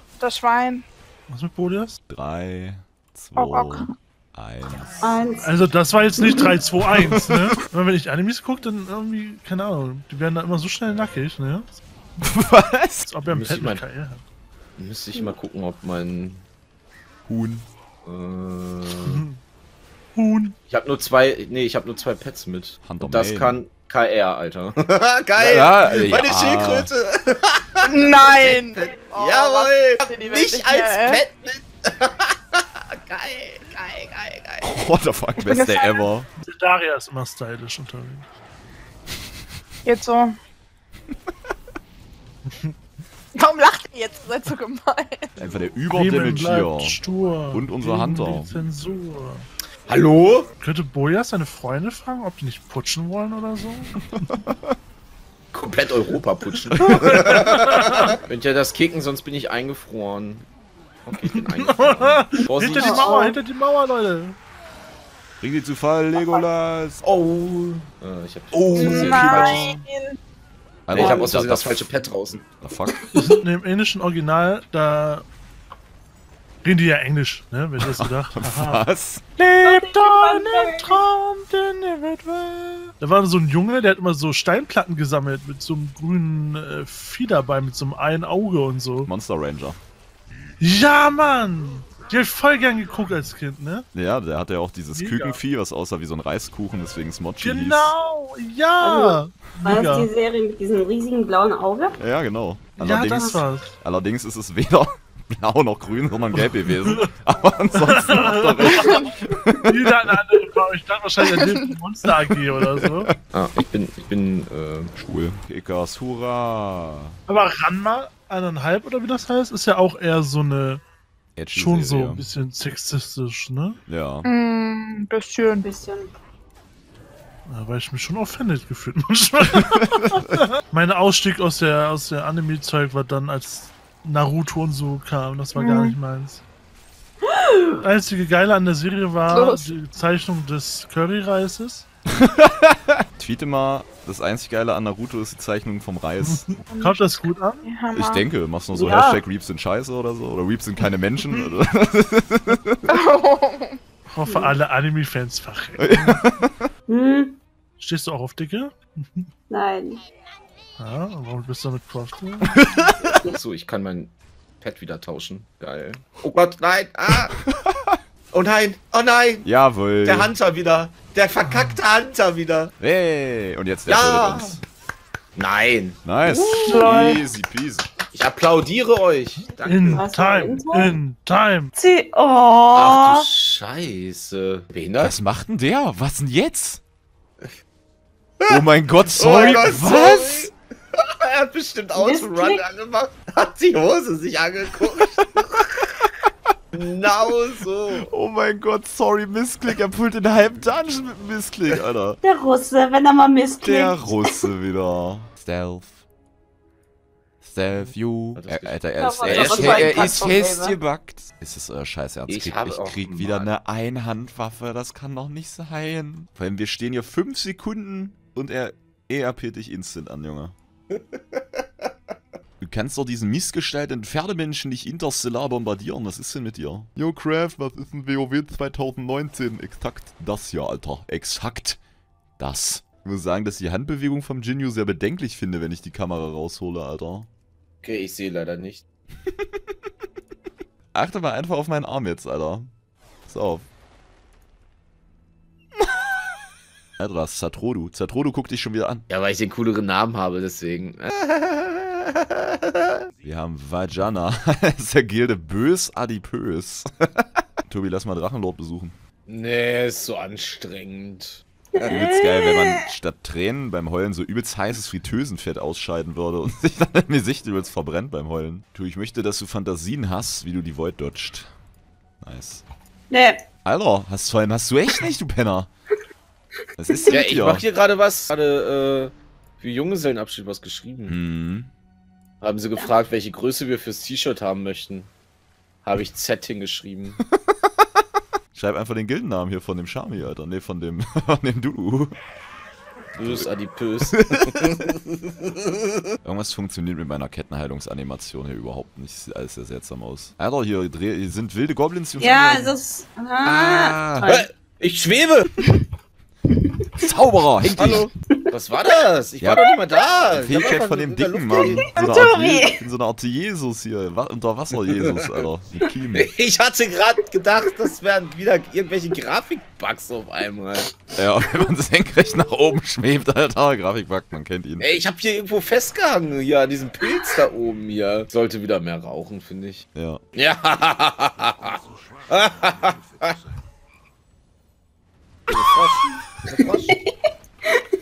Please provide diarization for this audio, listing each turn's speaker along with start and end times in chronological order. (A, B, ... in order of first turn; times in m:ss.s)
0:00.2-0:00.8 A
0:01.3-0:02.0 B
0:02.1-0:05.0 C
0:03.5-0:03.9 A
0:05.0-0:05.5 D
0:05.4-0:11.7 B
0:06.9-0:07.5 C
0:12.2-0:13.1 C
0:13.0-0:14.2 B
0:13.3-0:13.8 E
0:14.8-0:16.4 E
0:17.3-0:17.7 C
0:18.0-0:19.2 E
0:19.0-0:19.4 B
0:20.2-0:20.6 B
0:20.7-0:34.7 E
0:22.8-0:23.6 C
0:25.4-0:26.9 C
0:27.8-0:31.2 A
0:34.6-0:36.3 C
0:35.4-0:36.0 A
0:36.4-0:38.3 B
0:39.9-0:40.3 A
0:43.4-0:45.3 A
0:45.4-0:47.0 C
0:45.9-0:49.5 B
0:47.5-0:48.6 C
0:49.9-0:50.5 E
0:50.6-0:54.2 B
0:54.2-0:54.8 C
0:55.5-1:00.5 E
0:56.8-0:57.4 C
0:57.0-0:58.1 B
1:01.0-1:03.2 E
1:01.2-1:04.4 B
1:02.8-1:03.4 D
1:05.4-1:07.0 C
1:07.0-1:09.7 E
1:08.5-1:09.8 C
1:08.8-1:10.2 A
1:10.9-1:11.8 C
1:10.9-1:12.4 E
1:11.0-1:11.3 D
1:12.6-1:13.0 C
1:13.0-1:13.3 D
1:13.2-1:15.2 B
1:16.6-1:18.8 B
1:17.8-1:19.9 C
1:19.6-1:21.0 D
1:20.0-1:29.1 B
1:29.1-1:29.8 C
1:30.6-1:33.8 B
1:33.9-1:37.9 C
1:34.9-1:35.4 B
1:37.4-1:40.1 B
1:38.8-1:42.0 D
1:42.0-1:49.7 C
1:42.8-1:43.7 B
1:47.8-1:53.1 B
1:52.5-1:53.2 C
1:53.3-1:54.9 E
1:55.0-1:57.2 C
1:57.3-2:00.8 B
2:01.4-2:02.2 C
2:01.6-2:03.8 B
2:03.9-2:04.3 C
2:04.4-2:05.6 A
2:05.6-2:06.1 D
2:07.5-2:16.4 B
2:09.8-2:10.2 C
2:15.6-2:16.0 A
2:17.3-2:17.8 D
2:17.8-2:21.9 B
2:19.3-2:19.7 A
2:22.2-2:26.5 C
2:26.2-2:27.7 B
2:26.7-2:28.2 A
2:27.9-2:32.9 C
2:28.7-2:29.2 D
2:32.9-2:33.8 A
2:34.1-2:36.2 B
2:34.3-2:34.6 D
2:35.8-2:36.7 C
2:36.9-2:37.4 D
2:37.8-2:39.3 B
2:39.5-2:40.0 D
2:40.8-2:42.6 B
2:42.5-2:43.1 C
2:43.2-2:47.3 E
2:47.3-2:48.0 C
2:48.3-2:49.5 E
2:49.4-2:50.3 C
2:50.0-2:52.7 E
2:51.4-2:51.8 B
2:52.8-2:54.6 C
2:53.9-2:54.6 E
2:55.4-2:56.0 E
2:56.0-2:57.9 C
2:56.2-2:57.2 D
2:58.1-3:00.1 E
2:59.4-3:01.7 B
2:59.9-3:01.0 D
3:01.8-3:03.3 D
3:02.7-3:05.2 E
3:05.0-3:06.8 C
3:08.4-3:15.7 E
3:08.5-3:10.5 C
3:09.3-3:09.7 D
3:12.0-3:12.6 D
3:16.7-3:18.1 E
3:18.1-3:22.2 C
3:22.2-3:24.2 D
3:23.6-3:26.0 C
3:27.4-3:40.5 C
3:28.4-3:30.3 E
3:29.0-3:30.8 D
3:32.3-3:33.5 E
3:40.9-3:41.6 E
3:42.6-3:51.8 C
3:52.4-3:57.3 C
3:57.8-3:58.8 E
4:00.9-4:02.7 C
4:03.3-4:03.7 C
4:07.0-4:09.1 C
4:09.1-4:12.0 E
4:13.2-4:19.0 C
4:19.3-4:21.9 E
4:21.8-4:22.8 D
4:21.9-4:31.5 C
4:32.2-4:32.6 C
4:33.1-4:33.4 D
4:33.6-4:35.7 C
4:36.8-4:37.6 C
4:37.1-4:41.2 E
4:41.1-4:41.7 C
4:42.4-4:45.1 E
4:45.8-4:47.2 E
4:47.2-4:47.7 C
4:48.5-4:52.2 C
4:53.2-4:55.6 E
4:53.2-4:53.5 C
4:54.1-4:54.8 C
4:56.2-5:02.8 C
5:02.2-5:04.5 D
5:03.4-5:04.3 C
5:04.3-5:05.5 E
5:07.0-5:08.1 C
5:07.7-5:11.9 E
5:10.3-5:16.3 C
5:11.7-5:12.8 D
5:14.8-5:15.1 E
5:16.1-5:20.9 E
5:21.2-5:24.9 C
5:24.8-5:29.8 E
5:30.0-5:30.2 C
5:30.4-5:33.4 E
5:35.5-5:37.0 E
5:36.6-5:37.1 D